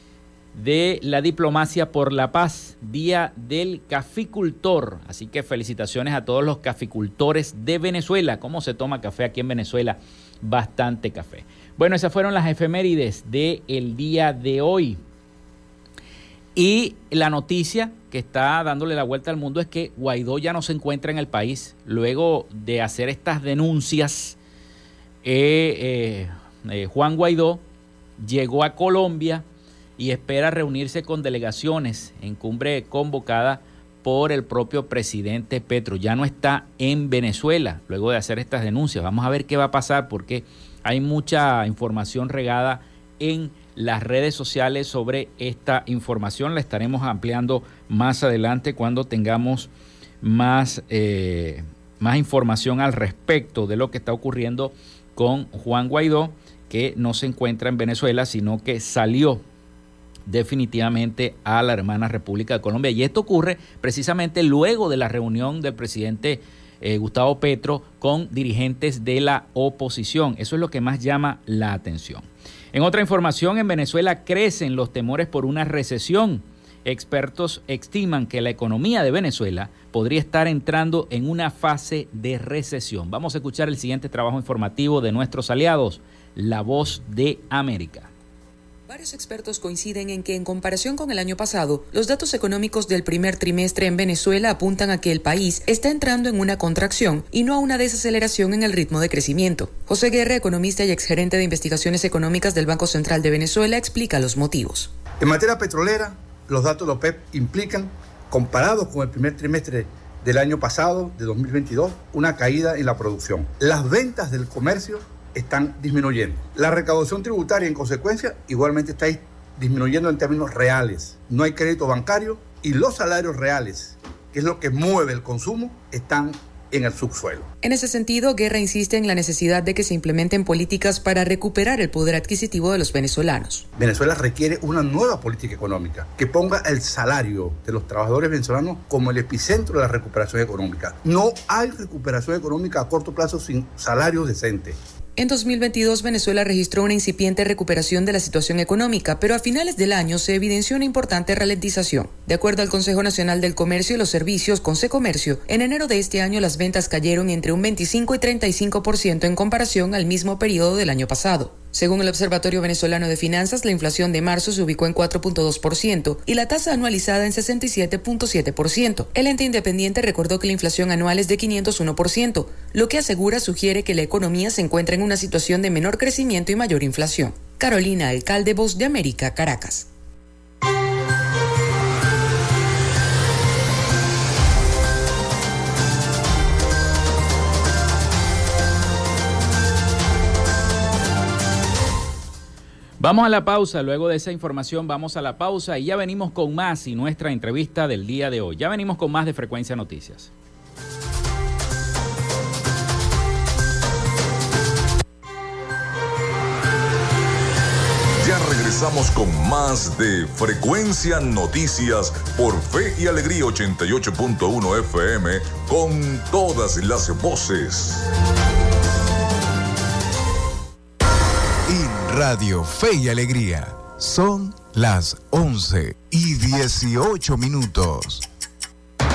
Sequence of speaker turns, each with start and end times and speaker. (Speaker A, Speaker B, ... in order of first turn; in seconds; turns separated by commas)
Speaker A: 0.5-15.0, Speaker A: 16.6-24.4, Speaker A: 25.2-27.6, Speaker A: 28.2-29.4, Speaker A: 30.0-49.7, Speaker A: 50.2-59.4, Speaker A: 60.3-88.1, Speaker B: 88.9-104.9, Speaker C: 105.2-127.5, Speaker B: 127.6-133.7, Speaker C: 133.8-144.8, Speaker B: 145.2-179.9, Speaker A: 193.0-200.3, Speaker D: 208.2-218.1, Speaker E: 221.7-228.3